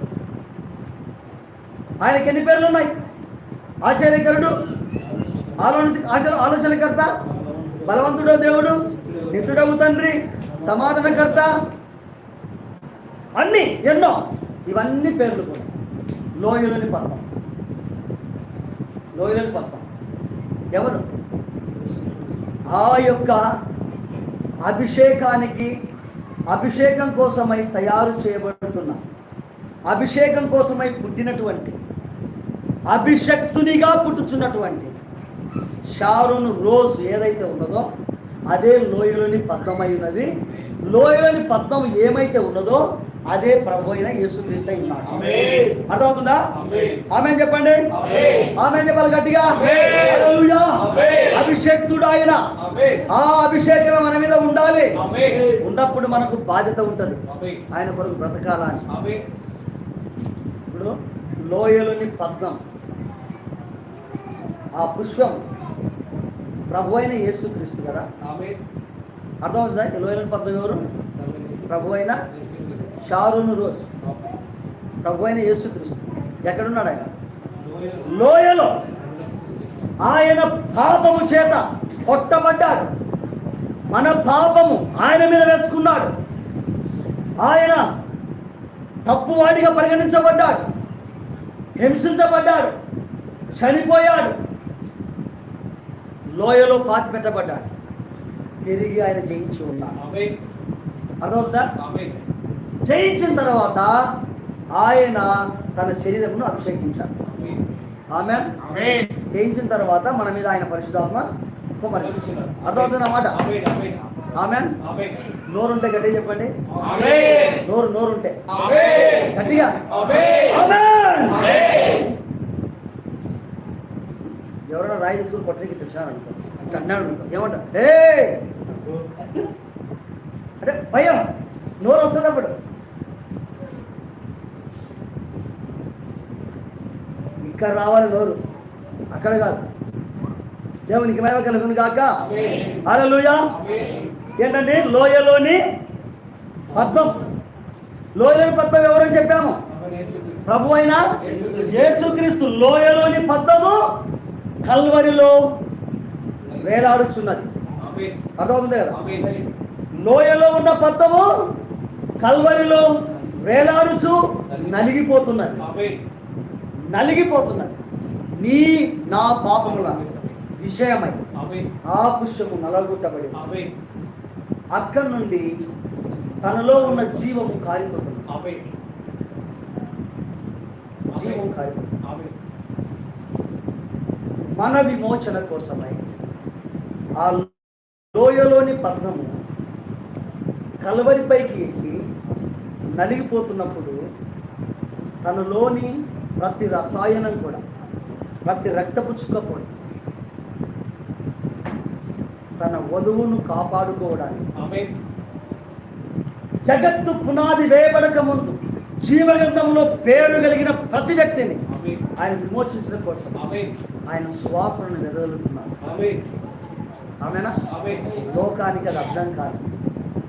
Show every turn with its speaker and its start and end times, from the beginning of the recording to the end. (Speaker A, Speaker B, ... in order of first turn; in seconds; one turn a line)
Speaker A: 2.0-2.9
Speaker A: 3.8-4.6
Speaker A: 5.6-7.1
Speaker B: 7.3-9.4
Speaker A: 7.8-11.6
Speaker B: 10.6-11.3
Speaker A: 13.4-15.7
Speaker A: 16.4-17.3
Speaker A: 19.1-19.9
Speaker A: 20.7-21.0
Speaker B: 21.9-22.3
Speaker A: 22.7-23.5
Speaker A: 24.6-25.7
Speaker A: 26.5-29.0
Speaker A: 29.9-31.8
Speaker A: 32.9-35.0
Speaker A: 36.0-37.9
Speaker A: 38.5-46.5
Speaker B: 45.1-45.7
Speaker B: 46.5-47.1
Speaker A: 47.1-47.9
Speaker B: 48.0-48.6
Speaker A: 48.4-52.4
Speaker B: 49.6-49.9
Speaker B: 50.8-51.4
Speaker B: 52.6-53.1
Speaker A: 53.1-58.9
Speaker B: 55.0-55.5
Speaker B: 57.3-57.6
Speaker B: 58.9-59.2
Speaker A: 60.7-61.0
Speaker A: 61.5-62.6
Speaker A: 64.8-65.4
Speaker A: 66.7-68.1
Speaker B: 68.2-68.6
Speaker A: 69.4-70.8
Speaker B: 71.2-71.7
Speaker A: 71.7-72.2
Speaker B: 72.4-72.8
Speaker A: 73.0-73.9
Speaker A: 75.0-77.1
Speaker B: 77.6-78.1
Speaker A: 78.0-78.8
Speaker A: 80.0-82.9
Speaker A: 83.9-86.1
Speaker A: 87.4-87.8
Speaker A: 89.0-90.6
Speaker A: 91.8-92.7
Speaker A: 93.5-94.3
Speaker A: 96.3-97.7
Speaker A: 98.6-100.0
Speaker B: 100.0-100.4
Speaker A: 101.2-101.7
Speaker B: 101.8-102.2
Speaker A: 102.8-104.0
Speaker A: 104.8-107.2
Speaker B: 107.3-107.6
Speaker A: 108.1-111.3
Speaker A: 111.8-113.4
Speaker B: 112.0-114.3
Speaker A: 114.3-114.8
Speaker B: 114.8-115.3
Speaker A: 115.5-116.5
Speaker B: 116.7-117.5
Speaker A: 117.5-118.4
Speaker B: 118.5-119.3
Speaker A: 119.1-121.9
Speaker B: 119.9-120.5
Speaker B: 121.4-121.7
Speaker A: 124.7-128.4
Speaker A: 130.6-131.3
Speaker A: 131.8-132.6
Speaker A: 137.4-138.4
Speaker A: 139.1-139.7
Speaker A: 140.9-143.5
Speaker B: 142.3-142.8
Speaker B: 143.6-144.1
Speaker A: 144.4-145.6
Speaker A: 146.7-147.2
Speaker A: 148.2-149.6
Speaker B: 149.7-150.5
Speaker A: 150.4-153.8
Speaker B: 151.2-152.1
Speaker A: 154.6-155.4
Speaker A: 156.6-157.5
Speaker B: 157.8-158.3
Speaker A: 158.3-159.0
Speaker B: 158.9-159.5
Speaker A: 160.0-161.3
Speaker A: 162.2-165.7
Speaker B: 164.5-164.8
Speaker B: 165.6-166.0
Speaker A: 166.9-167.8
Speaker A: 168.4-170.0
Speaker B: 169.7-170.3
Speaker A: 170.6-171.2
Speaker B: 171.3-171.7
Speaker A: 171.9-173.4
Speaker B: 173.3-173.7
Speaker A: 174.7-175.5
Speaker A: 176.4-178.3
Speaker B: 176.8-177.2
Speaker B: 178.3-178.7
Speaker A: 181.2-181.9
Speaker B: 181.2-181.4
Speaker B: 182.1-182.3
Speaker A: 184.5-186.0
Speaker A: 187.2-187.5
Speaker A: 188.1-189.3
Speaker A: 190.8-192.0
Speaker A: 192.9-194.0
Speaker A: 195.2-197.6
Speaker A: 198.4-199.7
Speaker A: 202.6-204.5
Speaker B: 204.6-204.9
Speaker A: 206.7-211.6
Speaker B: 211.7-212.1
Speaker A: 212.2-213.4
Speaker B: 213.4-213.8
Speaker A: 214.1-215.7
Speaker B: 215.8-216.2
Speaker A: 217.2-219.7
Speaker B: 217.7-218.2